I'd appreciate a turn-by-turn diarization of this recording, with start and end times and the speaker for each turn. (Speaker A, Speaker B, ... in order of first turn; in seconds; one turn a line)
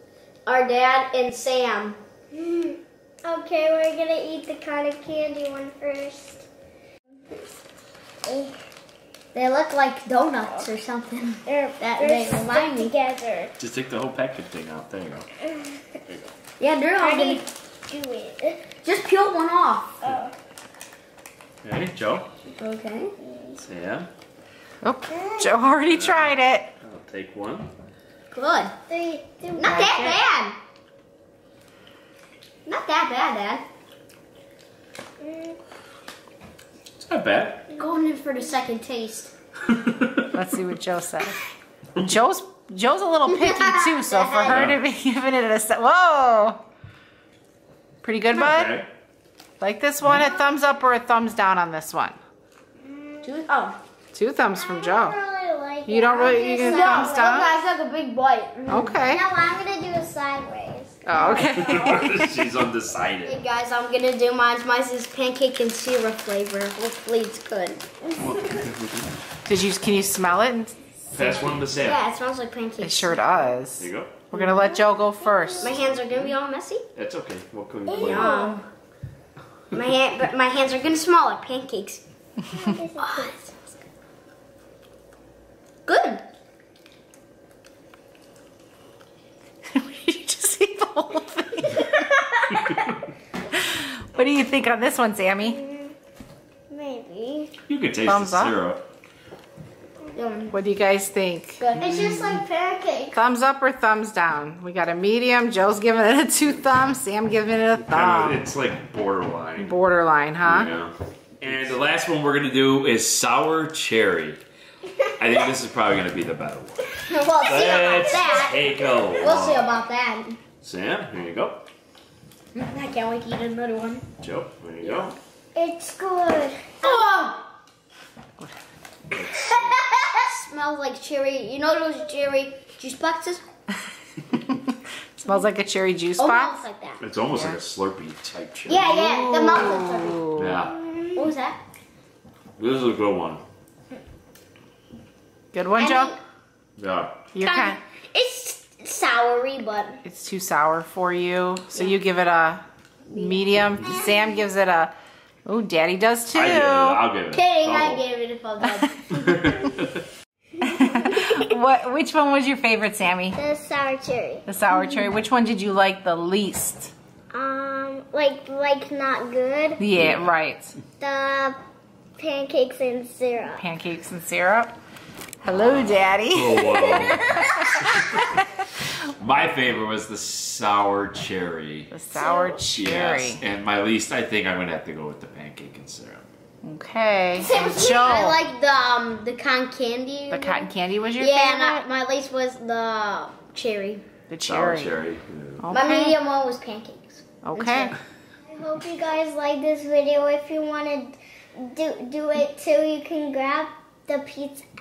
Speaker A: 0.5-2.0
Speaker B: 2.3-6.5
Speaker B: 8.2-8.6
Speaker A: 9.3-12.9
Speaker B: 11.5-13.6
Speaker C: 13.6-15.3
Speaker B: 15.5-15.8
Speaker A: 16.6-17.4
Speaker B: 17.0-18.6
Speaker A: 18.8-19.9
Speaker B: 20.0-20.3
Speaker C: 21.6-22.3
Speaker A: 22.5-23.1
Speaker B: 23.2-23.6
Speaker C: 23.6-24.1
Speaker D: 24.8-26.7
Speaker B: 25.1-25.5
Speaker C: 25.9-27.7
Speaker A: 28.3-28.8
Speaker B: 28.9-30.1
Speaker A: 29.6-30.6
Speaker D: 29.6-30.2
Speaker A: 32.7-33.6
Speaker B: 35.2-35.6
Speaker C: 37.0-37.6
Speaker A: 37.8-39.3
Speaker C: 39.7-40.3
Speaker D: 40.3-41.4
Speaker D: 42.0-46.6
Speaker A: 43.3-44.6
Speaker C: 44.4-44.8
Speaker D: 48.0-48.8
Speaker C: 48.3-48.9
Speaker D: 49.6-52.2
Speaker B: 52.9-53.4
Speaker A: 53.5-53.8
Speaker D: 54.1-55.2
Speaker B: 54.5-57.5
Speaker D: 55.9-57.5
Speaker A: 56.6-59.0
Speaker D: 58.7-59.2
Speaker B: 59.0-61.7
Speaker D: 61.1-62.3
Speaker C: 61.5-63.4
Speaker A: 63.2-67.8
Speaker C: 68.2-69.1
Speaker D: 69.5-70.8
Speaker C: 71.1-72.0
Speaker A: 71.7-73.2
Speaker D: 72.8-75.8
Speaker C: 73.8-74.2
Speaker B: 74.4-75.5
Speaker A: 75.6-76.8
Speaker C: 75.7-76.3
Speaker C: 77.0-78.3
Speaker B: 77.9-78.6
Speaker A: 78.0-78.7
Speaker A: 79.7-82.0
Speaker B: 82.5-83.6
Speaker A: 83.0-83.3
Speaker A: 85.9-86.2
Speaker D: 89.7-92.0
Speaker D: 93.6-95.6
Speaker B: 95.4-95.9
Speaker B: 96.7-97.5
Speaker C: 97.7-98.9
Speaker D: 98.0-98.6
Speaker A: 100.2-100.5
Speaker D: 100.5-101.7
Speaker A: 101.6-102.5
Speaker B: 101.8-103.1
Speaker D: 103.1-108.4
Speaker C: 106.4-106.7
Speaker C: 107.8-109.8
Speaker D: 109.6-110.7
Speaker C: 110.4-114.4
Speaker C: 115.2-116.8
Speaker A: 117.0-120.4
Speaker C: 117.4-119.7
Speaker B: 117.8-118.0
Speaker C: 120.6-121.6
Speaker A: 122.5-124.1
Speaker C: 124.2-125.1
Speaker A: 124.8-125.1
Speaker B: 125.5-127.1
Speaker A: 126.8-127.4
Speaker C: 129.1-129.8
Speaker A: 129.3-133.5
Speaker D: 135.2-136.6
Speaker A: 136.2-137.0
Speaker C: 137.0-138.9
Speaker D: 137.3-137.6
Speaker A: 138.7-140.3
Speaker D: 138.9-140.6
Speaker C: 140.4-140.8
Speaker B: 140.5-141.3
Speaker A: 141.2-141.6
Speaker C: 142.6-143.4
Speaker D: 145.5-146.2
Speaker A: 145.8-146.2
Speaker C: 146.8-147.2
Speaker D: 147.3-147.8
Speaker A: 147.4-150.0
Speaker D: 150.1-154.9
Speaker D: 155.5-157.0
Speaker C: 156.3-158.0
Speaker A: 157.3-159.6
Speaker C: 159.2-160.0
Speaker D: 160.6-163.4
Speaker B: 163.3-164.4
Speaker D: 164.5-166.9
Speaker B: 167.3-169.8
Speaker D: 169.8-170.8
Speaker C: 170.0-170.3
Speaker B: 171.0-171.6
Speaker B: 172.2-173.6
Speaker D: 173.6-174.7
Speaker D: 175.4-178.5
Speaker C: 175.5-177.3
Speaker C: 179.1-181.9
Speaker D: 181.9-183.4
Speaker B: 182.2-182.6
Speaker C: 182.7-186.2
Speaker D: 186.6-188.4
Speaker A: 187.3-194.0
Speaker D: 190.3-191.5
Speaker B: 191.4-191.8
Speaker D: 194.3-194.9
Speaker C: 194.4-195.7
Speaker D: 195.6-196.2
Speaker A: 195.7-197.9
Speaker D: 197.4-197.9
Speaker B: 198.5-204.7